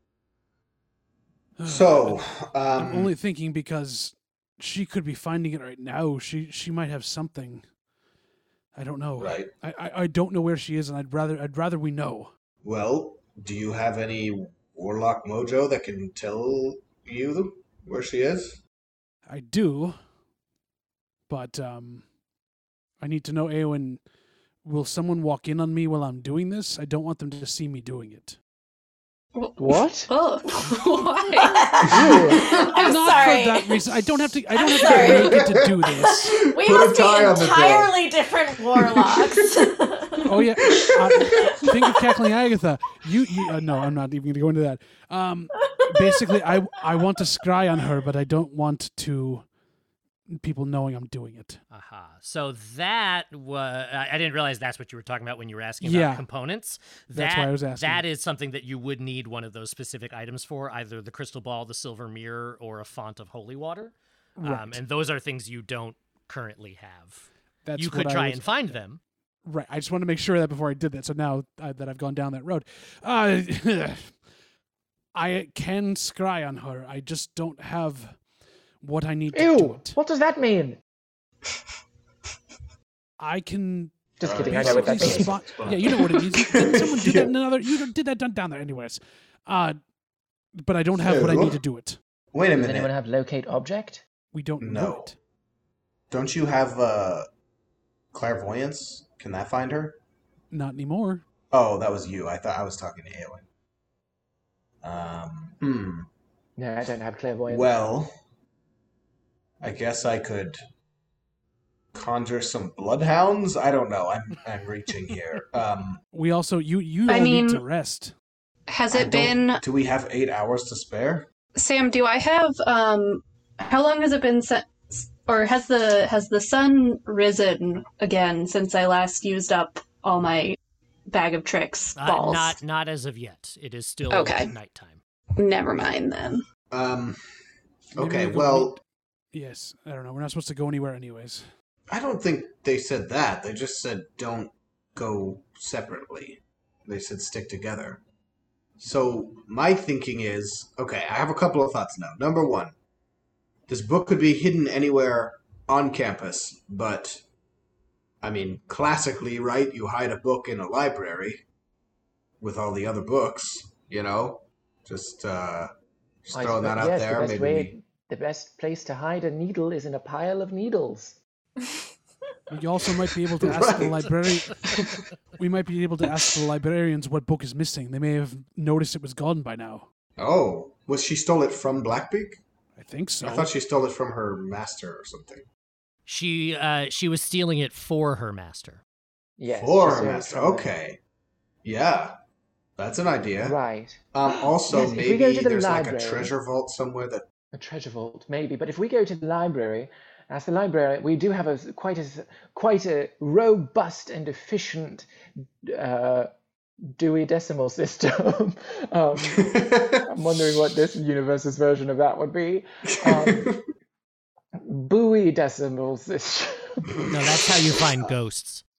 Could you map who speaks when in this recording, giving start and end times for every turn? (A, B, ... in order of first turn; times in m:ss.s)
0:01.6-0:07.8 A
0:01.6-0:03.2 B
0:08.7-0:12.3 A
0:09.2-0:09.5 B
0:12.6-0:18.6 B
0:19.3-0:20.1 A
0:21.3-0:22.2 A
0:23.0-0:28.4 A
0:29.4-0:31.9 C
0:29.6-0:30.1 D
0:31.4-0:33.9 E
0:31.9-0:32.7 B
0:32.0-0:36.3 A
0:34.5-0:40.4 E
0:34.9-0:37.9 B
0:38.7-0:39.4 B
0:40.3-0:49.6 A
0:40.7-0:41.4 B
0:41.4-0:42.0 E
0:45.6-0:46.4 E
0:50.2-0:51.6 A
0:51.7-1:09.0 F
0:55.8-0:56.3 A
0:57.1-0:58.0 A
1:04.4-1:04.8 A
1:07.6-1:14.3 A
1:15.1-1:20.0 A
1:19.3-1:20.8 D
1:23.2-1:29.9 A
1:24.2-1:25.7 D
1:24.2-1:27.8 B
1:30.5-1:32.0 A
1:31.0-1:31.6 B
1:32.3-1:32.9 B
1:32.5-1:34.0 D
1:34.3-1:35.2 A
1:34.6-1:35.1 B
1:36.1-1:37.3 B
1:38.1-1:40.0 B
1:40.5-1:41.2 A
1:41.5-1:43.5 B
1:44.8-1:46.1 B
1:46.6-1:47.8 D
1:47.5-1:48.1 B
1:49.6-1:50.6 B
1:51.9-1:56.0 B
1:56.1-1:58.1 A
1:57.1-1:57.6 C
1:58.7-1:59.6 C
1:58.9-2:01.3 B
2:01.6-2:10.6 C
2:11.1-2:12.6 C
2:12.0-2:15.0 F
2:14.1-2:14.5 C
2:15.4-2:16.4 C
2:16.7-2:17.2 B
2:18.0-2:18.8 B
2:18.0-2:18.8 A
2:19.3-2:21.5 A
2:21.9-2:28.0 B
2:28.8-2:32.8 B
2:33.7-2:37.2 B
2:38.2-2:41.4 B
2:42.4-2:45.7 B
2:46.2-2:47.7 B
2:46.3-2:51.2 D
2:52.5-2:54.8 A
2:53.4-2:55.0 B
2:55.4-2:59.9 A
3:00.2-3:02.4 B
3:02.8-3:03.5 A
3:03.2-3:05.5 B
3:06.1-3:08.8 F
3:09.4-3:10.7 D
3:09.5-3:11.0 B
3:11.6-3:12.2 B
3:12.8-3:13.6 B
3:13.4-3:16.3 D
3:14.1-3:17.3 B
3:17.5-3:25.1 D
3:25.6-3:26.3 D
3:26.9-3:33.6 D
3:29.3-3:30.1 B
3:33.0-3:33.6 B
3:34.6-3:36.9 D
3:37.1-3:38.6 F